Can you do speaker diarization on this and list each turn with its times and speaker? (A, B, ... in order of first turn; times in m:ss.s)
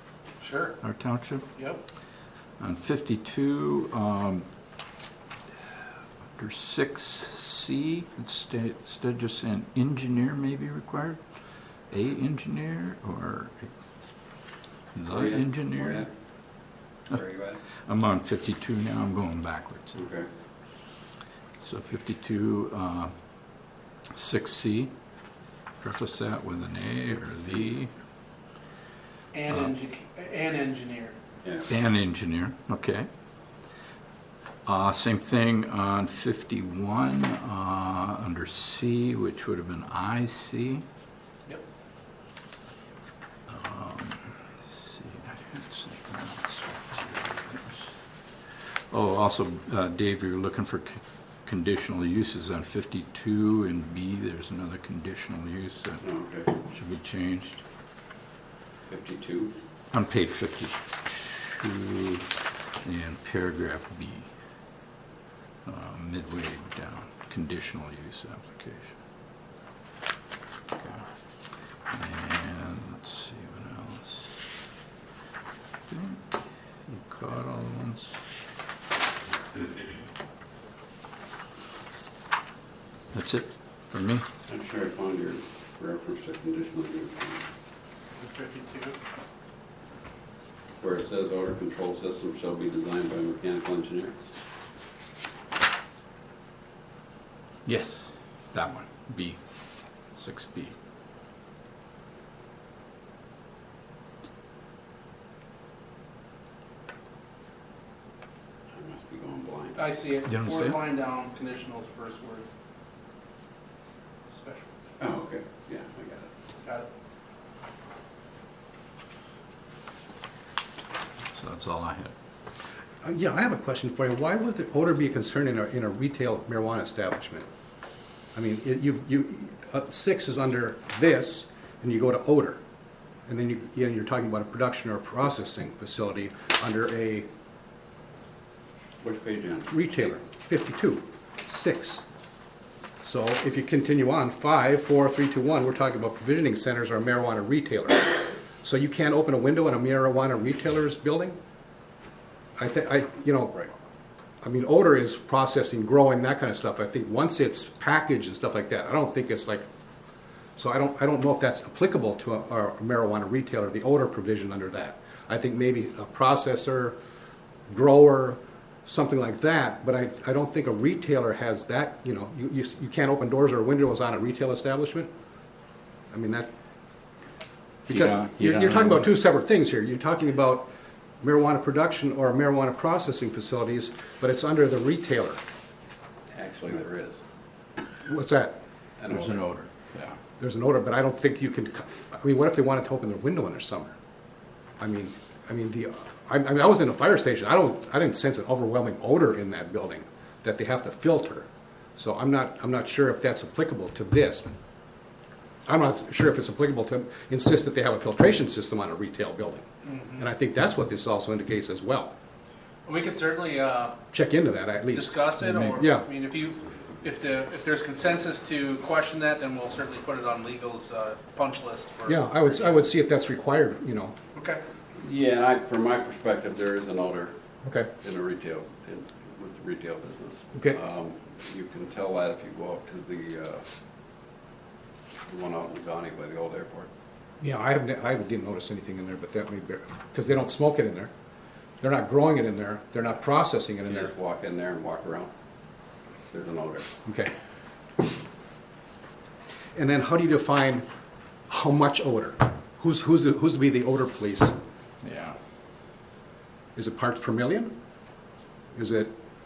0:00.4-0:00.8 A
0:00.8-0:01.5 B
0:01.6-0:01.8 A
0:02.6-0:04.5 B
0:06.4-0:11.2 B
0:11.9-0:13.7 B
0:15.0-0:16.1 B
0:15.1-0:16.1 C
0:17.1-0:17.6 C
0:17.8-0:20.1 B
0:20.0-0:20.3 C
0:21.6-0:23.1 B
0:24.1-0:24.9 B
0:25.8-0:27.9 B
0:29.3-0:31.2 A
0:29.5-0:29.7 B
0:31.7-0:33.1 B
0:34.6-0:40.8 B
0:43.5-0:47.9 B
0:48.9-0:56.0 B
0:56.0-0:56.5 C
0:56.7-0:57.6 B
0:58.9-0:59.5 C
0:59.9-1:02.3 B
1:02.8-1:04.3 B
1:05.6-1:09.0 B
1:10.7-1:11.0 B
1:11.9-1:14.4 B
1:15.9-1:16.2 B
1:16.9-1:18.2 B
1:23.1-1:24.3 B
1:24.5-1:27.5 C
1:28.2-1:29.0 A
1:30.8-1:34.2 C
1:37.6-1:39.4 B
1:40.1-1:40.8 B
1:48.7-1:49.9 C
1:49.8-1:52.5 A
1:50.2-1:50.8 B
1:54.3-1:54.7 A
1:55.0-1:56.3 C
2:01.3-2:02.1 B
2:03.0-2:07.5 D
2:08.4-2:12.6 D
2:13.3-2:17.3 D
2:19.0-2:19.7 C
2:19.7-2:22.0 D
2:23.0-2:31.4 D
2:32.6-2:33.7 D
2:34.4-2:39.6 D
2:40.6-2:47.0 D
2:47.7-2:55.1 D
2:56.1-2:56.5 D
2:57.9-3:00.7 D
2:57.9-2:59.1 B
3:01.2-3:05.4 D
3:06.3-3:07.2 C
3:08.0-3:08.6 D
3:09.0-3:09.4 C
3:09.1-3:10.2 B
3:10.4-3:14.0 D
3:14.8-3:24.6 D
3:25.7-3:29.6 D
3:29.9-3:30.2 A
3:30.2-3:32.1 D
3:32.9-3:34.0 A
3:34.1-3:36.1 D
3:34.9-3:42.8 A
3:35.4-3:35.8 B
3:42.1-3:44.2 D
3:44.4-3:44.6 A
3:45.0-3:47.4 C
3:47.6-3:47.9 D
3:48.0-3:53.6 C
3:55.3-3:56.9 C
3:57.4-4:01.1 D
4:01.8-4:04.1 D
4:03.8-4:05.3 C
4:06.3-4:06.9 C
4:07.0-4:07.3 D
4:09.8-4:10.9 D
4:11.5-4:14.6 D
4:15.0-4:15.4 B
4:16.8-4:17.7 D
4:18.7-4:19.1 D